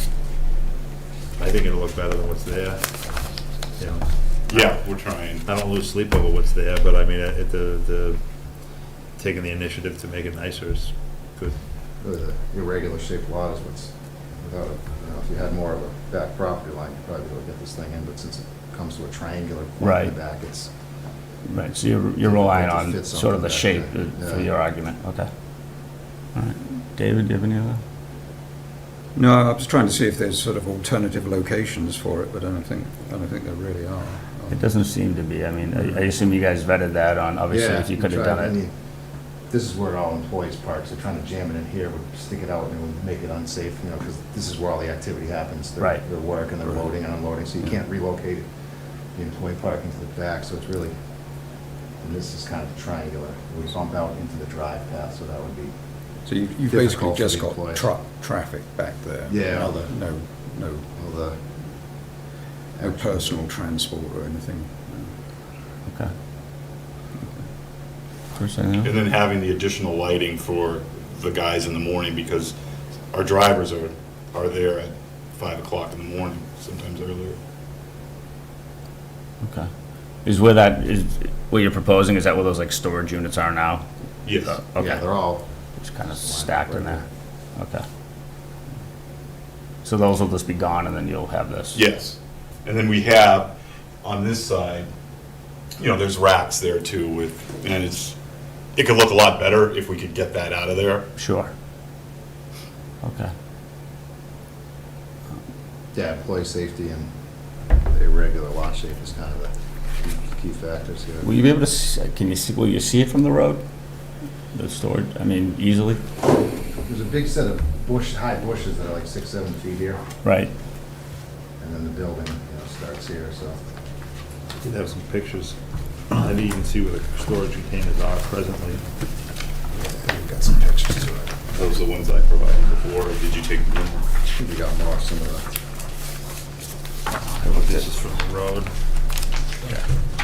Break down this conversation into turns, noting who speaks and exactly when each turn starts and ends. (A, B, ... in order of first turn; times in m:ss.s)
0:01.4-0:02.8 A
0:03.8-0:04.8 A
0:04.5-0:05.4 B
0:05.4-0:08.2 A
0:09.2-0:11.6 A
0:12.0-0:20.7 C
0:19.8-0:20.2 D
0:21.5-0:25.3 D
0:22.2-0:24.5 C
0:26.4-0:27.8 D
0:29.2-0:34.6 E
0:34.5-0:38.6 D
0:37.5-0:38.7 C
0:39.5-0:48.5 C
0:49.2-0:50.9 C
0:52.0-0:55.7 C
0:56.3-1:00.9 E
0:56.7-0:57.9 C
0:59.3-0:59.9 C
1:00.9-1:01.4 C
1:02.8-1:03.3 C
1:02.8-1:05.1 E
1:08.3-1:09.0 D
1:08.8-1:12.5 B
1:13.1-1:17.4 B
1:19.4-1:19.7 D
1:20.2-1:23.9 D
1:24.2-1:24.6 B
1:24.4-1:25.0 D
1:24.8-1:25.4 C
1:25.8-1:27.0 D
1:26.2-1:27.1 C
1:27.6-1:27.8 D
1:29.8-1:31.8 D
1:31.7-1:34.9 B
1:35.8-1:38.2 B
1:38.8-1:41.1 B
1:41.2-1:41.5 D
1:43.0-1:43.3 D
1:45.9-1:47.1 C
1:47.9-1:51.3 C
1:51.2-1:53.6 D
1:54.5-1:56.0 D
1:56.9-2:00.0 C
2:00.2-2:00.5 D
2:01.6-2:03.6 C
2:04.6-2:05.6 A
2:06.1-2:08.8 A
2:09.8-2:11.4 C
2:11.5-2:14.0 B
2:14.3-2:15.4 C
2:17.3-2:17.9 D
2:17.5-2:18.7 A